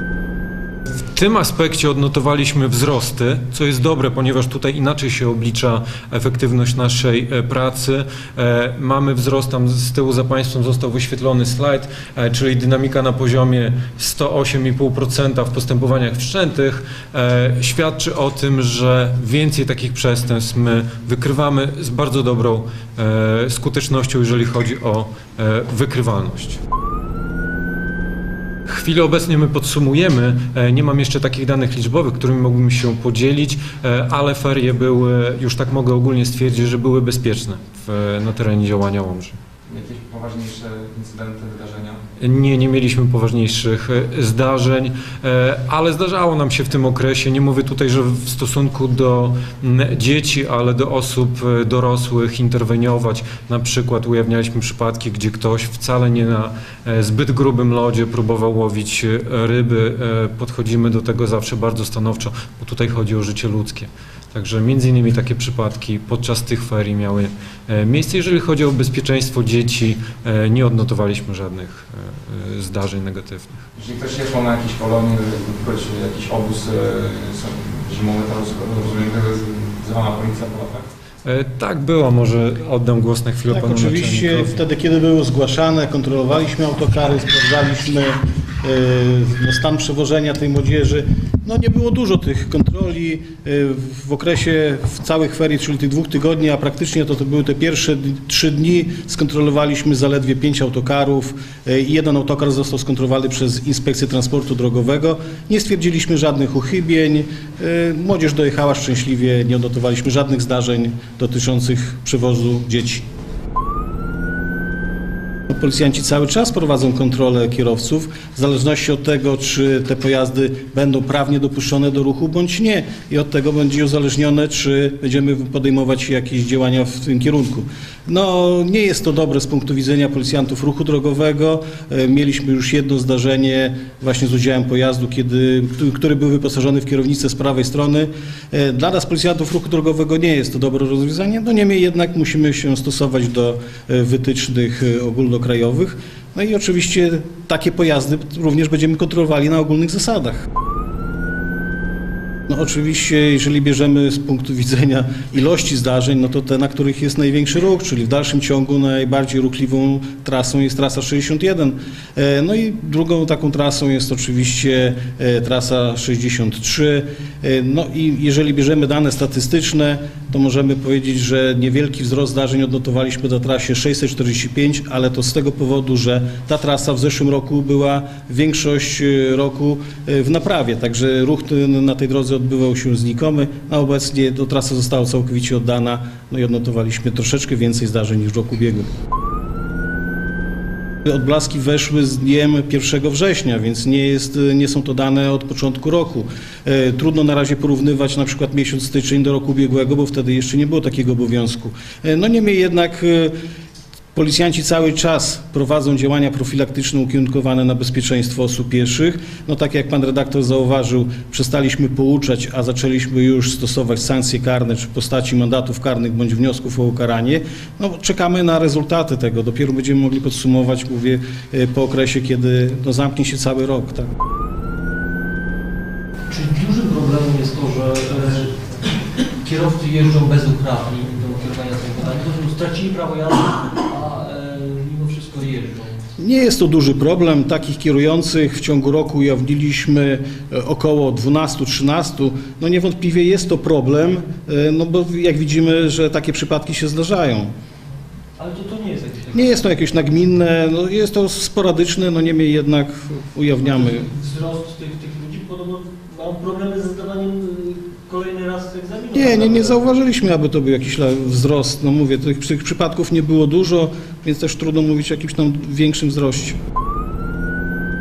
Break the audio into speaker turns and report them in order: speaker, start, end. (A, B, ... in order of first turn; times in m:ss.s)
0:01.0-0:26.6 A
0:28.7-0:39.4 A
0:39.7-0:42.0 B
0:42.2-1:13.6 A
1:13.8-1:20.9 B
1:21.2-1:24.6 A
1:23.5-1:53.0 C
1:55.5-2:30.4 C
2:32.5-3:08.9 C
3:11.0-3:23.3 C
3:24.1-3:44.1 C
3:46.3-3:48.5 D
3:49.4-3:56.0 D
3:56.2-4:07.5 C
4:08.4-4:09.6 D
4:09.3-4:14.1 C
4:13.7-4:19.8 D
4:19.1-4:26.6 C